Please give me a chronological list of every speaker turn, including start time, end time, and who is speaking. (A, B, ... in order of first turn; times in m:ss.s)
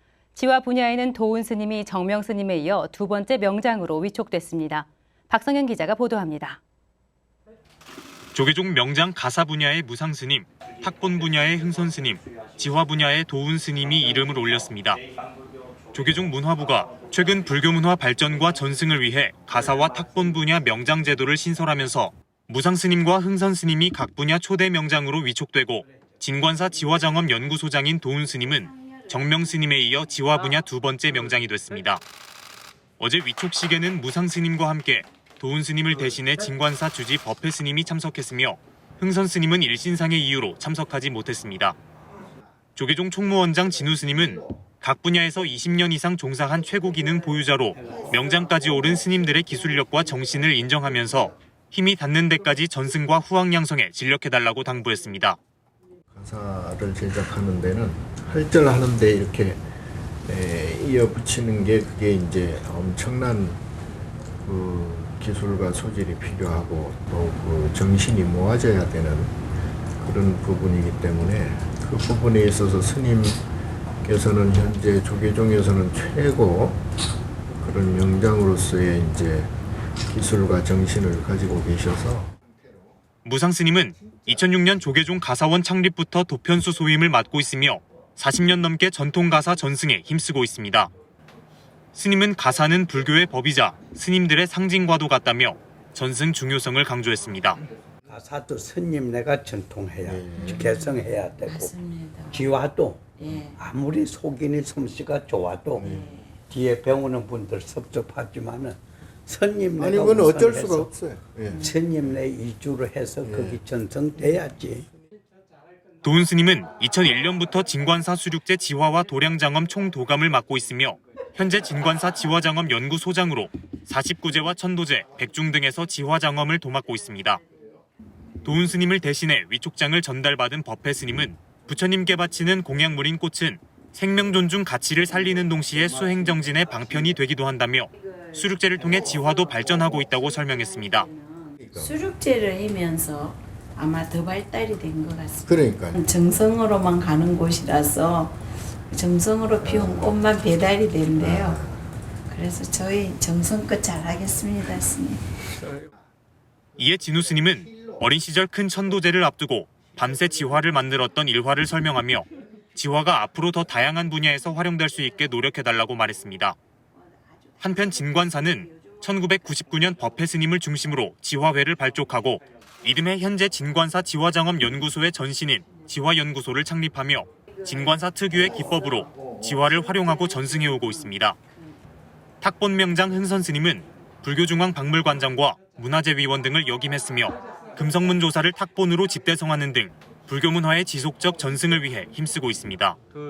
0:00.3-0:06.6 A
0:08.3-0:15.0 B
0:15.9-0:32.0 B
0:28.6-0:29.3 C
0:33.0-0:41.8 B
0:42.8-0:55.4 B
0:56.1-0:59.6 D
1:00.3-1:03.6 D
1:04.4-1:09.3 D
1:10.0-1:13.4 D
1:14.0-1:16.8 D
1:17.6-1:22.3 D
1:23.2-1:30.9 B
1:31.9-1:37.6 B
1:38.1-1:41.7 E
1:40.0-1:40.7 D
1:40.4-1:42.6 C
1:42.3-1:45.9 E
1:43.2-1:43.6 C
1:45.8-1:46.2 D
1:45.8-1:46.4 C
1:46.4-1:50.9 E
1:49.8-1:52.0 D
1:51.6-1:54.9 E
1:53.2-1:53.6 D
1:56.0-2:07.4 B
2:08.4-2:21.1 B
2:17.9-2:28.4 C
2:21.6-2:22.0 D
2:25.4-2:26.0 D
2:28.9-2:31.6 C
2:29.6-2:30.2 D
2:31.1-2:31.8 D
2:32.3-2:35.3 C
2:36.8-2:46.6 B
2:46.9-2:49.3 C
2:47.6-3:01.4 B
2:57.6-2:57.9 C
2:58.6-2:59.2 C
3:00.2-3:01.7 C
3:02.4-3:13.0 B